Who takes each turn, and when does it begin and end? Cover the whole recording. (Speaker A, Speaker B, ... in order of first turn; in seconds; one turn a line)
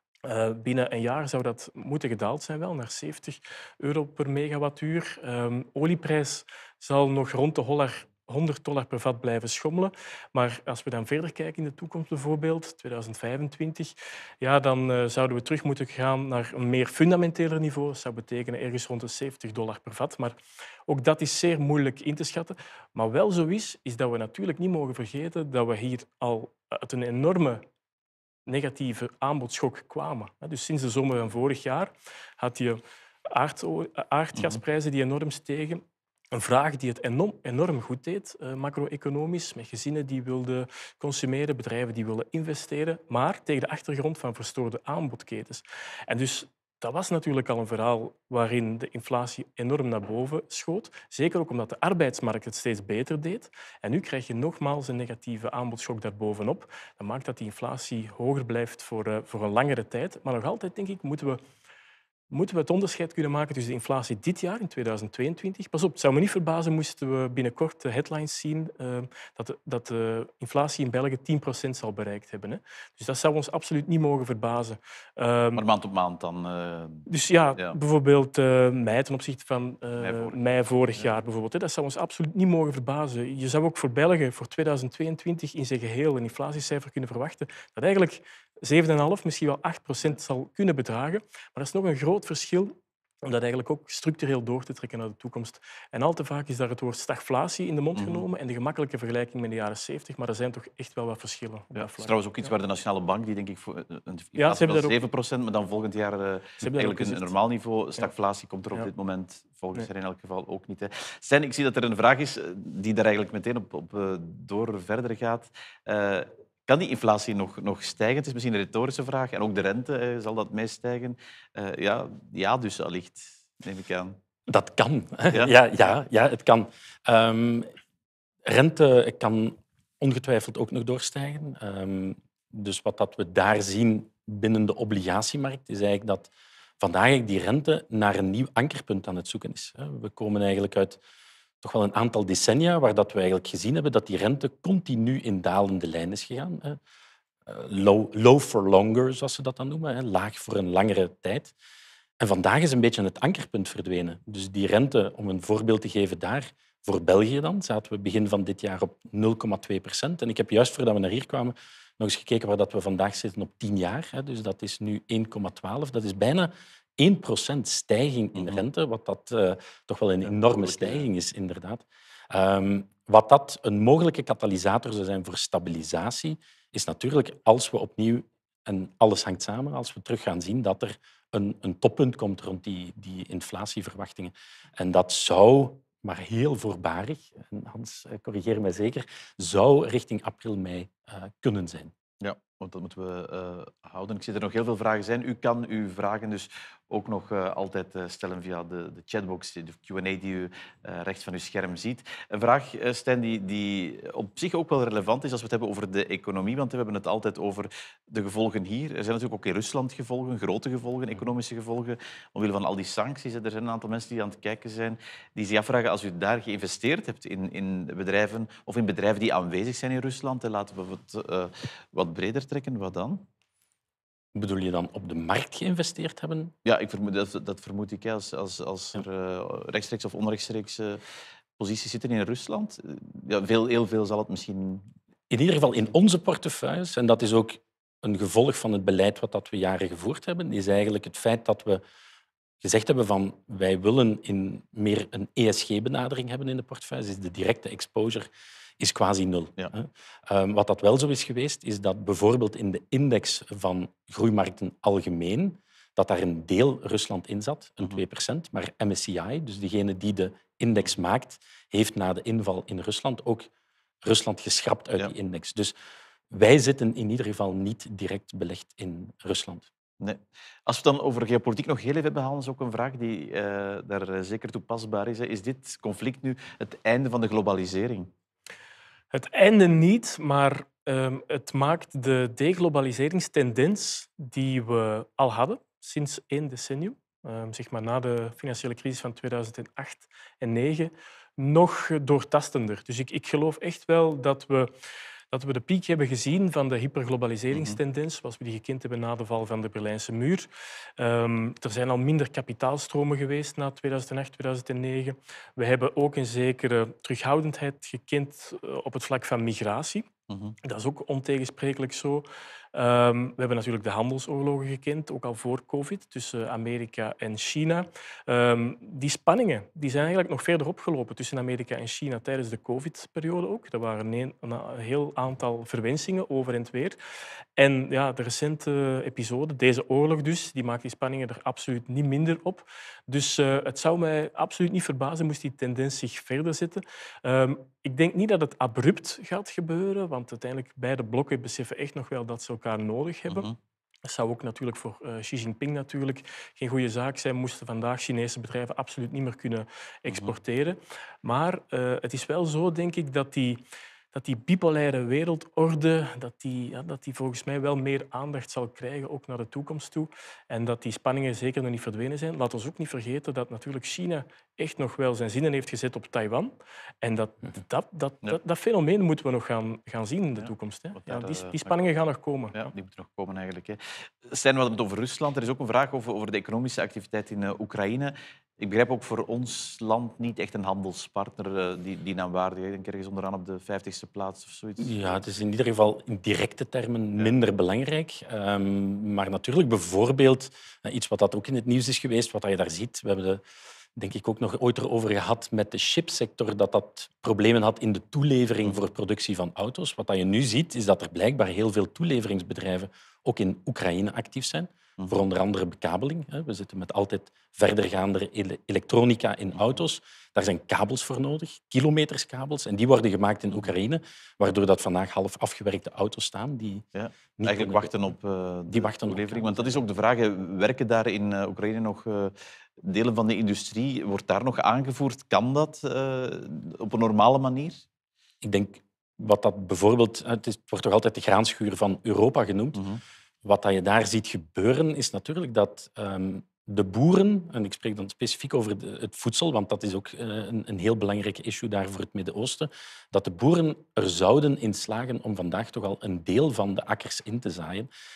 Speaker A: 0.2-27.6
Speaker A: 28.5-61.4
Speaker A: 62.3-75.6
Speaker B: 75.5-77.8
Speaker A: 77.1-102.5
Speaker B: 80.0-80.4
Speaker B: 98.0-98.2
Speaker B: 101.7-124.2
Speaker A: 104.3-105.0
Speaker A: 106.6-107.3
Speaker C: 124.5-127.7
Speaker C: 128.4-141.0
Speaker C: 141.6-146.8
Speaker C: 147.5-151.5
Speaker C: 152.2-191.9
Speaker B: 168.3-168.6
Speaker B: 170.2-171.1
Speaker B: 192.2-223.2
Speaker C: 224.3-226.5
Speaker B: 226.6-231.0
Speaker B: 231.6-234.8
Speaker C: 235.3-241.8
Speaker C: 242.6-263.5
Speaker C: 264.0-265.7
Speaker C: 266.3-269.7
Speaker B: 270.0-278.1
Speaker A: 279.1-294.7
Speaker A: 295.3-310.1
Speaker B: 297.5-297.8
Speaker B: 310.3-310.6
Speaker A: 310.6-327.0
Speaker A: 327.6-343.5
Speaker B: 343.3-343.5
Speaker A: 344.1-353.6
Speaker B: 350.1-350.3
Speaker A: 354.1-372.7
Speaker B: 370.4-371.8
Speaker B: 372.5-385.2
Speaker C: 384.8-393.4
Speaker C: 393.9-416.9
Speaker B: 416.9-427.8
Speaker C: 417.4-417.9
Speaker C: 418.7-419.8
Speaker C: 428.4-432.8
Speaker B: 432.8-433.0
Speaker C: 433.4-447.9